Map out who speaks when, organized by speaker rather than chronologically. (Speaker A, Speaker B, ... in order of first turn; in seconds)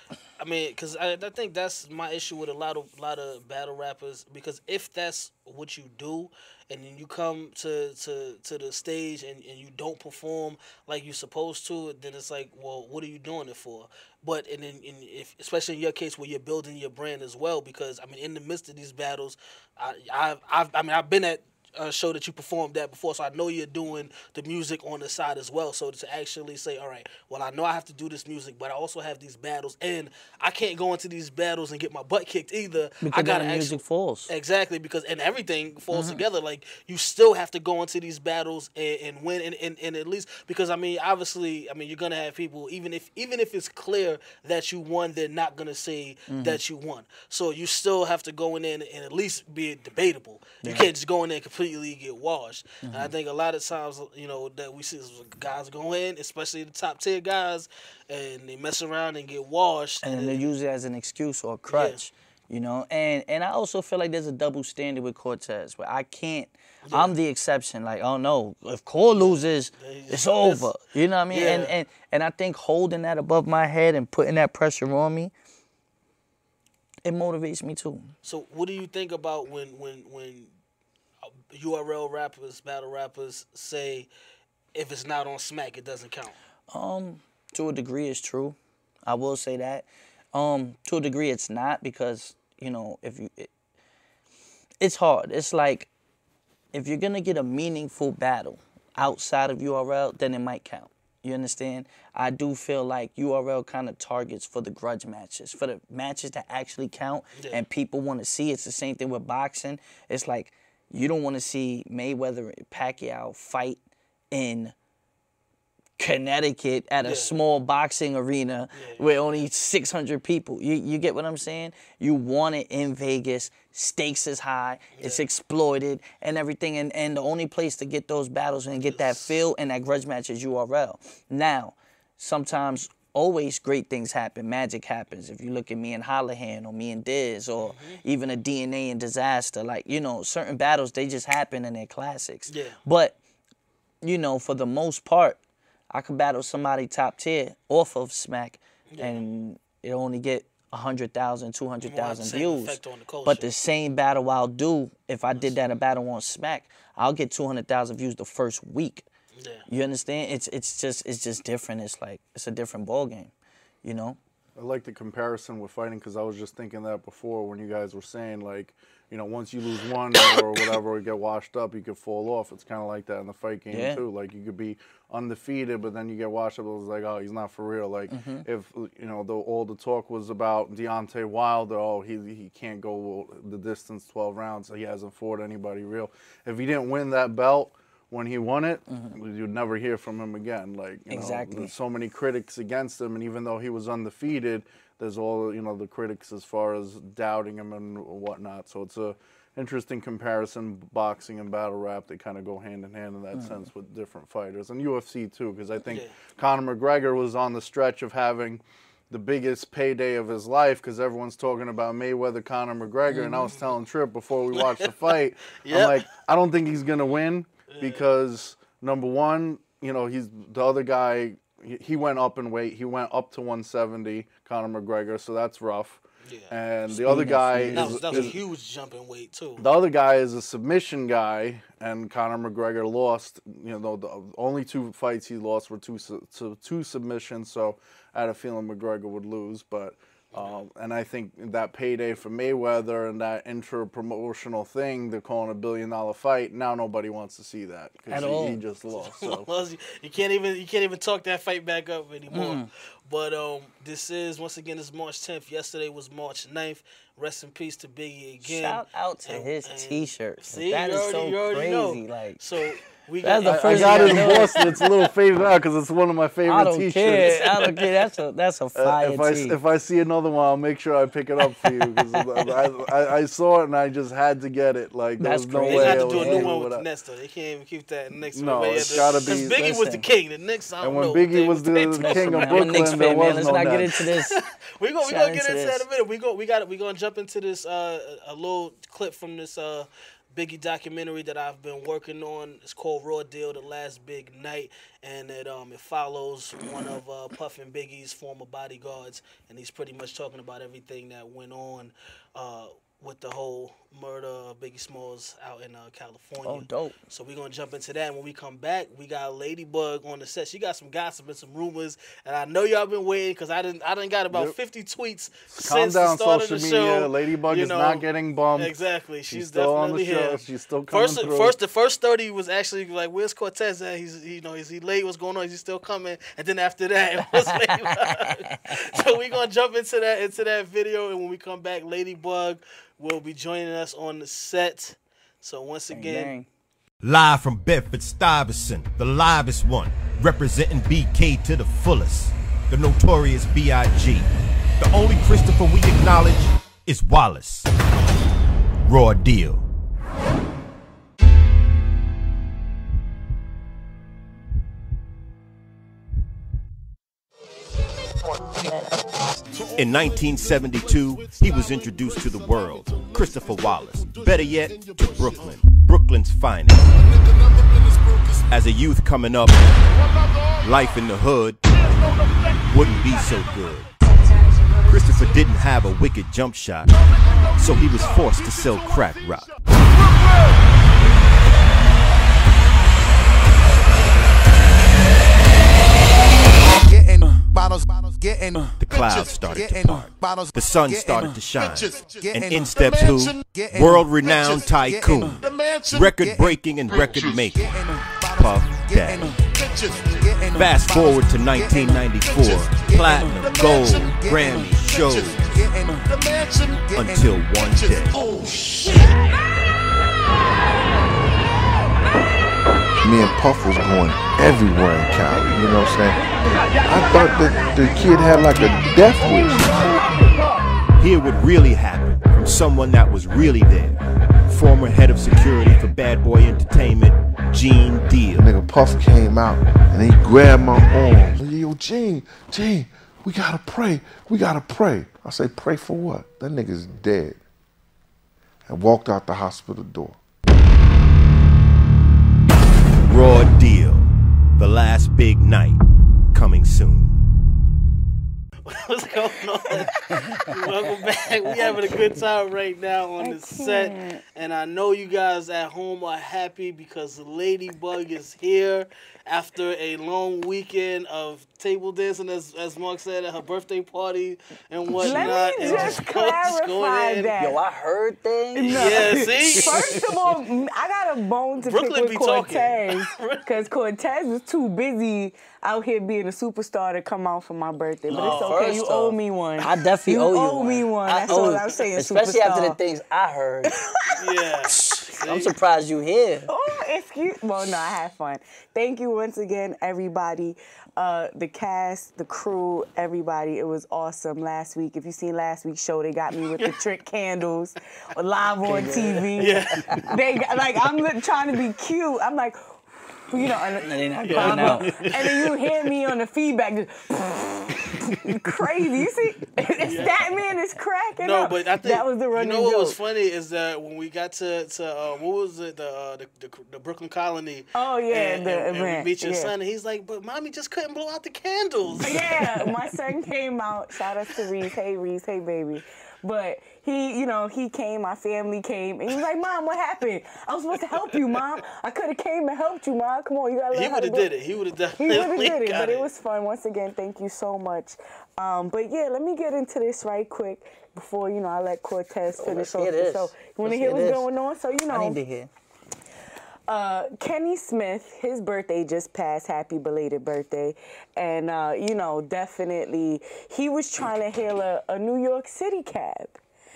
Speaker A: 0.4-60.5, 61.7-62.0, 66.9-67.1, 69.1-70.7, 71.3-71.7, 78.2-80.5, 81.5-84.1, 84.7-86.3, 107.3-107.6, 117.0-117.3, 118.7-119.4, 125.0-125.2, 128.8-129.4, 137.6-138.0, 142.5-142.8, 148.9-149.2, 151.8-153.5, 159.4-159.7, 205.9-206.1, 213.4-213.7, 214.5-216.0, 217.7-218.1, 226.2-227.1, 227.7-229.7, 240.3-240.7, 248.9-264.6, 267.3-267.9, 275.7-283.1, 284.2-336.3, 448.6-467.3, 468.7-470.0, 471.6-473.5, 478.1-478.9, 484.1-485.5, 499.4-499.8, 504.2-505.5, 509.8-510.2, 511.2-522.7, 533.7-536.1
Speaker B: 33.0-34.3, 35.9-36.2, 46.3-46.6, 50.6-50.9, 52.8-53.1, 60.0-75.3, 77.0-78.1, 86.7-93.5, 94.8-95.9, 96.7-113.8, 114.3-114.7, 116.0-143.2, 144.0-145.4, 145.9-159.1, 159.7-163.3, 163.8-164.2, 173.7-174.0, 178.1-178.4, 188.9-189.2, 191.1-191.7, 203.3-203.7, 213.1-213.4, 227.0-228.4, 248.1-248.6, 252.3-252.7, 258.4-262.4, 263.2-264.6, 266.4-269.6, 275.2-276.5, 278.8-280.1, 282.0-284.4, 285.0-285.8, 306.4-307.0, 328.1-328.6, 335.9-336.5, 450.1-450.4, 465.0-466.0, 467.4-470.3, 478.1-483.7, 484.9-486.5, 498.6-500.1, 503.8-505.2, 542.3-544.3, 544.9-545.5
Speaker C: 164.6-228.4, 229.6-249.5, 263.4-267.4, 268.8-276.8, 278.3-279.6, 280.8-283.9, 315.5-318.7, 319.3-321.5
Speaker D: 337.0-344.3, 344.8-347.7, 348.8-349.6, 359.8-366.9, 368.5-369.6, 370.6-371.6, 372.7-373.9, 374.9-377.0, 377.6-379.5, 388.8-399.4, 400.5-405.6, 406.9-408.2, 421.0-428.4, 443.0-445.8, 446.3-447.2
Speaker E: 359.5-365.7, 367.0-368.4, 370.0-371.0, 371.8-373.7, 375.1-375.4, 376.9-380.5, 387.6-390.3, 391.6-397.7, 398.7-398.9, 399.5-401.6, 402.2-409.0
Speaker F: 413.0-416.2, 416.8-419.9, 428.3-437.4, 438.6-440.2
Speaker G: 453.2-454.2, 465.0-467.6, 468.5-482.8, 483.6-484.4, 486.5-502.6, 503.3-513.0, 517.7-519.5, 522.0-534.4, 535.0-545.2, 546.7-556.4